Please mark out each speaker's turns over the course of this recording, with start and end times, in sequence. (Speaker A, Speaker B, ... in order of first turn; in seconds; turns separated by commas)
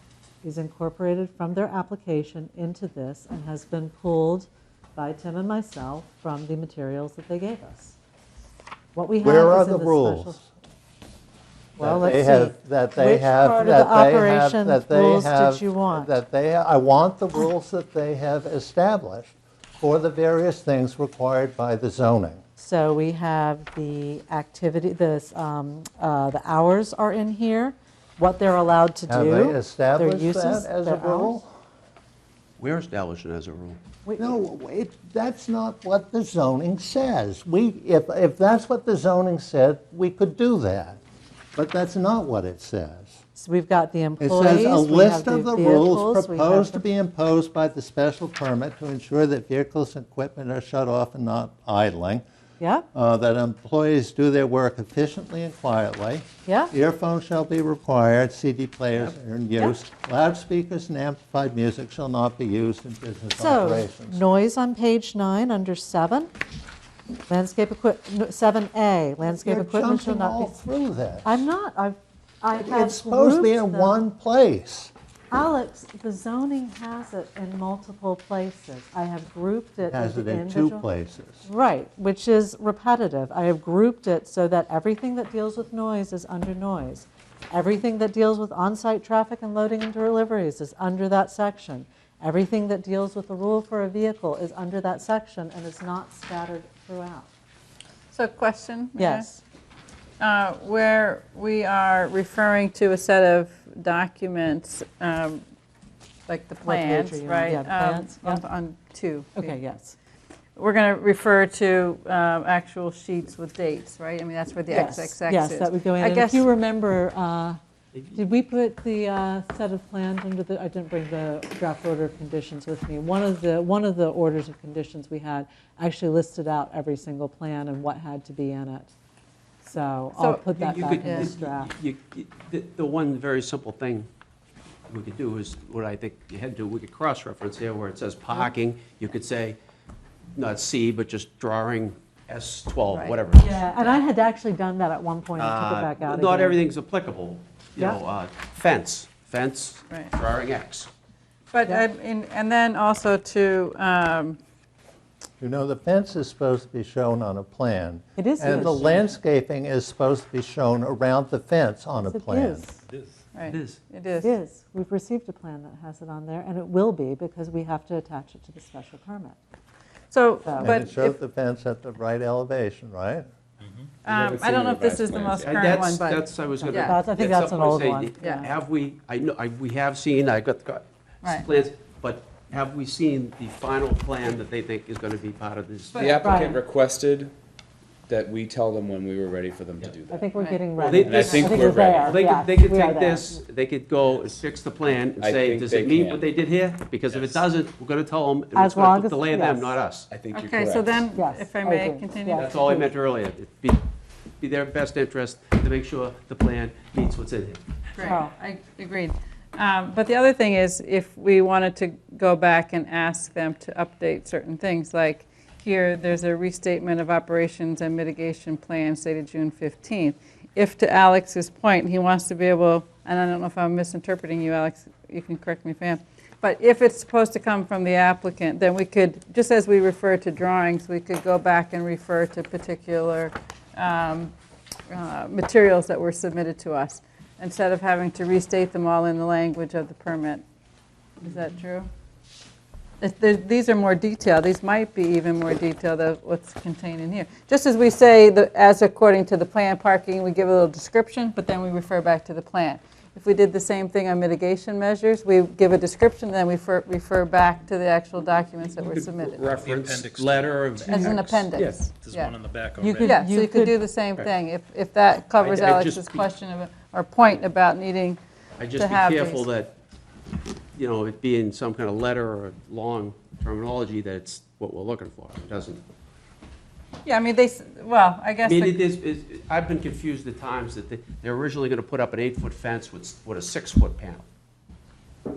Speaker A: 0.4-8.0, Speaker A: 8.9-10.4, Speaker B: 9.2-10.4, Speaker B: 11.8-22.4, Speaker A: 11.8-16.1, Speaker A: 22.6-31.4, Speaker B: 29.1-31.5, Speaker C: 32.6-33.8, Speaker A: 34.0-34.4, Speaker B: 34.2-41.0, Speaker B: 41.5-43.2, Speaker A: 43.4-46.8, Speaker B: 44.2-52.2, Speaker A: 52.6-52.9, Speaker B: 52.9-64.2, Speaker A: 56.5-56.7, Speaker A: 63.4-66.3, Speaker A: 67.3-70.5, Speaker B: 69.4-71.4, Speaker A: 71.2-74.0, Speaker B: 72.6-74.9, Speaker A: 75.3-80.8, Speaker B: 79.9-81.5, Speaker A: 81.5-97.3, Speaker D: 98.1-99.3, Speaker A: 99.0-99.4, Speaker D: 100.2-105.4, Speaker D: 106.3-109.6, Speaker A: 106.6-108.4, Speaker A: 109.4-110.0, Speaker D: 110.6-116.5, Speaker A: 114.7-117.6, Speaker A: 118.1-128.9, Speaker A: 129.6-131.7, Speaker D: 130.2-131.3, Speaker C: 130.6-134.1, Speaker C: 134.9-139.6, Speaker C: 140.4-143.6, Speaker D: 142.9-143.2, Speaker A: 143.3-146.6, Speaker C: 145.4-150.9, Speaker D: 151.5-154.4, Speaker B: 155.4-162.7, Speaker A: 158.2-159.2, Speaker A: 162.0-162.8, Speaker E: 162.9-163.1, Speaker D: 163.3-164.3, Speaker C: 163.4-163.8, Speaker A: 164.2-169.4, Speaker D: 170.1-171.2, Speaker A: 170.5-170.8, Speaker B: 170.6-173.3, Speaker F: 174.0-175.7, Speaker D: 174.0-177.0, Speaker C: 175.4-186.4, Speaker A: 176.5-178.5, Speaker D: 178.2-178.5, Speaker D: 185.9-186.3, Speaker F: 185.9-187.3, Speaker A: 186.2-186.6, Speaker F: 188.1-190.3, Speaker A: 190.1-193.4, Speaker D: 190.4-190.7, Speaker C: 190.8-200.6, Speaker F: 190.8-192.2, Speaker F: 195.2-196.3, Speaker A: 198.5-199.8, Speaker F: 200.1-201.1, Speaker D: 200.3-202.7, Speaker A: 201.1-202.9, Speaker C: 202.4-203.8, Speaker C: 204.4-207.6, Speaker D: 207.9-234.3, Speaker A: 208.0-208.3, Speaker D: 234.9-240.4, Speaker D: 241.2-241.9, Speaker D: 243.0-259.5, Speaker C: 258.8-261.6, Speaker E: 259.4-263.2, Speaker D: 260.9-262.4, Speaker A: 262.8-263.8, Speaker D: 263.0-268.2, Speaker C: 265.4-266.3, Speaker C: 268.6-269.7, Speaker D: 268.8-269.5, Speaker C: 270.8-275.8, Speaker D: 277.1-278.8, Speaker C: 278.4-284.2